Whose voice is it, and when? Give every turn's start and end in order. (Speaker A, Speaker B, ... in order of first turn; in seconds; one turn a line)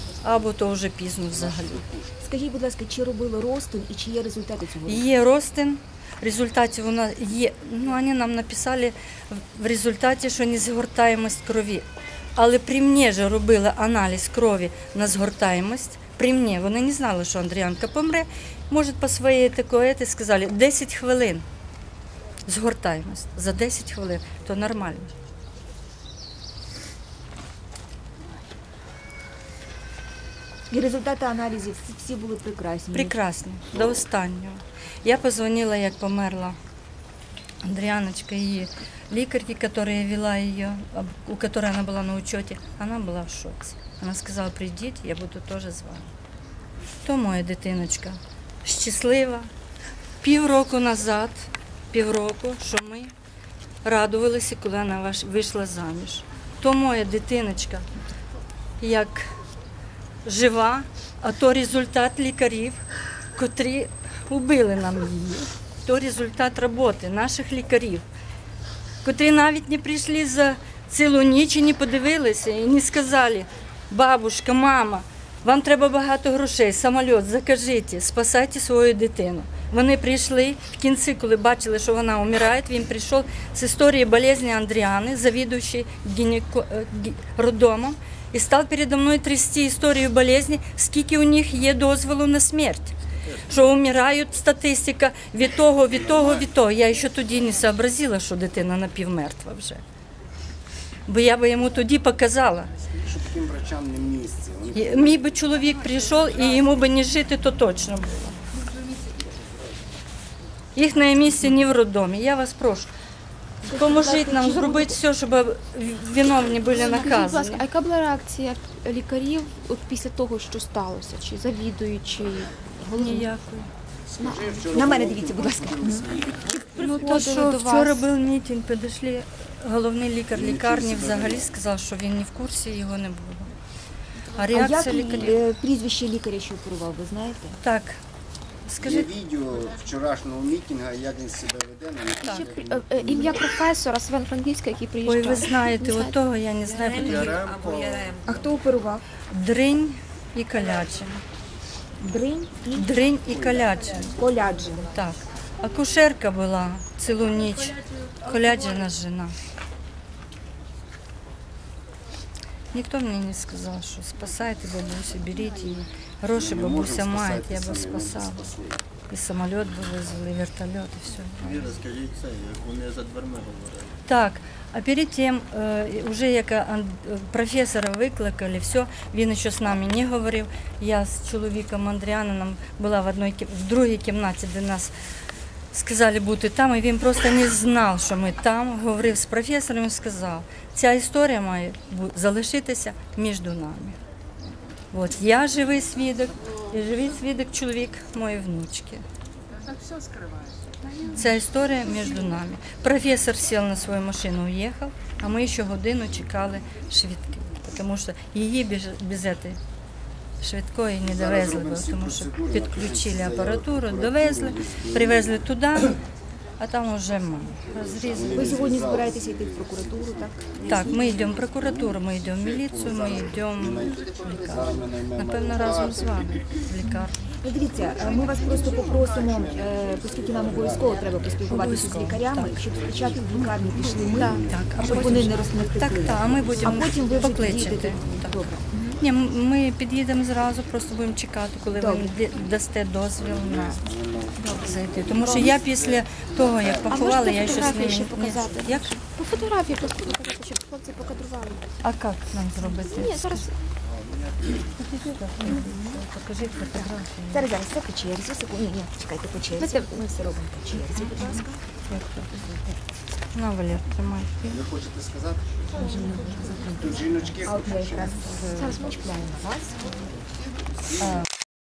Speaker A: 0.2-1.9
Speaker B: 1.3-2.1
Speaker C: 2.2-5.0
Speaker A: 4.9-21.4
Speaker A: 22.4-25.1
Speaker C: 30.7-33.2
Speaker A: 32.9-36.6
Speaker A: 37.6-46.1
Speaker A: 47.0-49.5
Speaker A: 50.2-53.1
Speaker A: 53.8-57.9
Speaker A: 58.8-59.3
Speaker A: 60.2-62.8
Speaker A: 63.3-68.0
Speaker A: 69.0-92.9
Speaker A: 93.5-99.8
Speaker B: 95.9-96.5
Speaker A: 101.1-102.7
Speaker B: 103.0-105.2
Speaker A: 104.7-108.4
Speaker A: 110.8-112.9
Speaker A: 113.7-117.7
Speaker C: 113.7-115.0
Speaker D: 116.7-123.3
Speaker A: 122.9-123.7
Speaker B: 124.1-126.6
Speaker C: 124.2-126.2
Speaker D: 126.5-128.0
Speaker A: 126.7-133.5
Speaker B: 130.3-131.6
Speaker A: 134.3-135.4
Speaker C: 134.5-137.6
Speaker A: 137.6-138.0
Speaker A: 138.7-139.2
Speaker B: 138.8-143.5
Speaker D: 142.2-146.1
Speaker A: 145.0-147.4
Speaker E: 146.8-148.4
Speaker C: 148.3-149.0
Speaker A: 149.3-151.2
Speaker C: 152.0-152.9
Speaker A: 152.7-154.3
Speaker C: 154.2-154.9
Speaker A: 154.8-159.4
Speaker A: 162.7-168.5
Speaker B: 166.4-168.8
Speaker A: 169.1-171.7
Speaker E: 171.4-173.9
Speaker A: 174.1-184.9
Speaker A: 185.7-194.0
Speaker A: 194.9-199.1
Speaker A: 201.1-209.6
Speaker A: 210.4-216.0
Speaker B: 211.0-215.5
Speaker A: 216.6-218.8
Speaker B: 217.7-226.2
Speaker C: 218.3-221.1
Speaker A: 220.7-227.2
Speaker C: 227.4-238.9
Speaker B: 227.8-232.0
Speaker A: 231.5-232.6
Speaker B: 232.7-234.7
Speaker D: 233.9-235.3
Speaker A: 234.3-243.9
Speaker C: 241.8-242.1
Speaker B: 243.2-247.7
Speaker D: 244.4-245.2
Speaker A: 244.5-249.0
Speaker D: 246.9-251.6
Speaker A: 251.8-253.5
Speaker D: 252.7-253.6
Speaker B: 253.8-254.7
Speaker A: 254.8-257.5
Speaker C: 257.3-261.6
Speaker D: 259.6-260.3
Speaker A: 261.0-262.3
Speaker D: 261.0-261.4
Speaker C: 262.3-262.7
Speaker A: 263.3-264.7
Speaker B: 264.5-265.6
Speaker C: 265.7-269.9
Speaker B: 266.7-269.1
Speaker D: 268.4-269.4
Speaker B: 270.9-271.2